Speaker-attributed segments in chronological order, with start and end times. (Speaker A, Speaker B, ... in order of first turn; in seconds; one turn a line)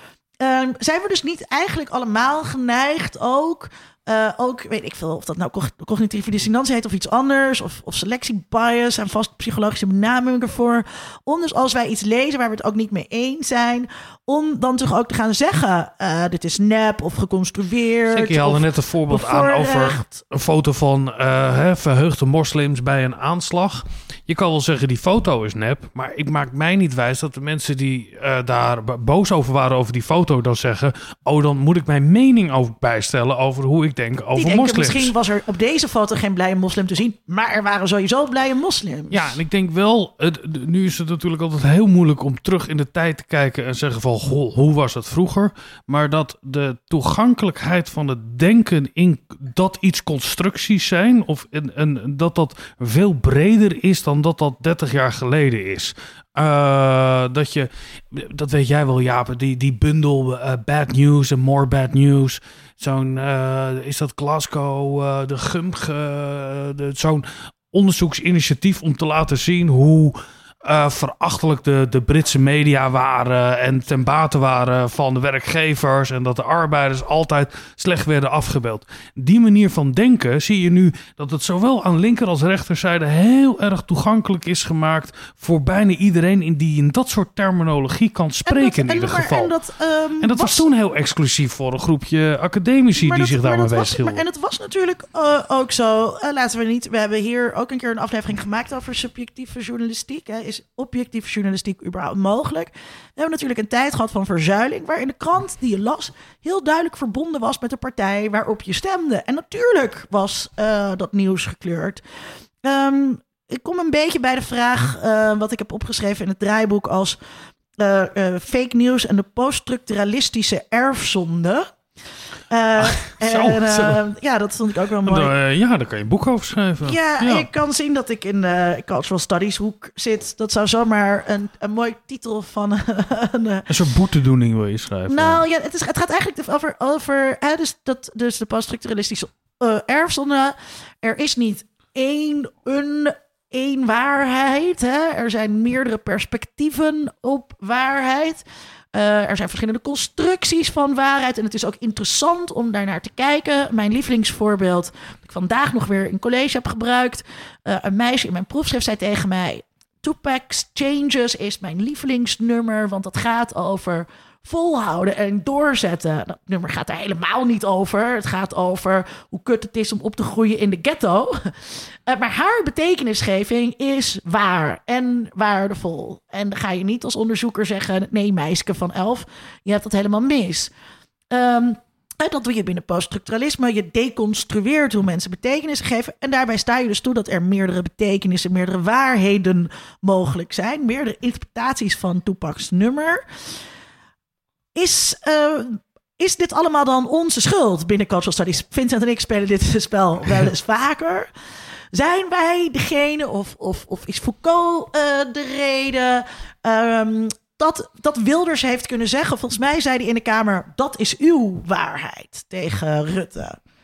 Speaker A: 0.4-20.2
Speaker B: 18.1-35.1
Speaker A: 34.4-39.4
Speaker B: 39.1-89.5
Speaker A: 88.5-90.6
Speaker B: 90.2-94.2
Speaker A: 93.0-112.0
Speaker A: 112.6-117.2
Speaker A: 117.8-121.7
Speaker A: 122.5-125.3
Speaker B: 122.8-124.0
Speaker B: 125.0-127.5
Speaker A: 126.8-133.7
Speaker B: 133.7-135.4
Speaker A: 135.1-180.7
Speaker A: 181.3-193.2
Speaker A: 194.7-201.3
Speaker A: 201.9-213.6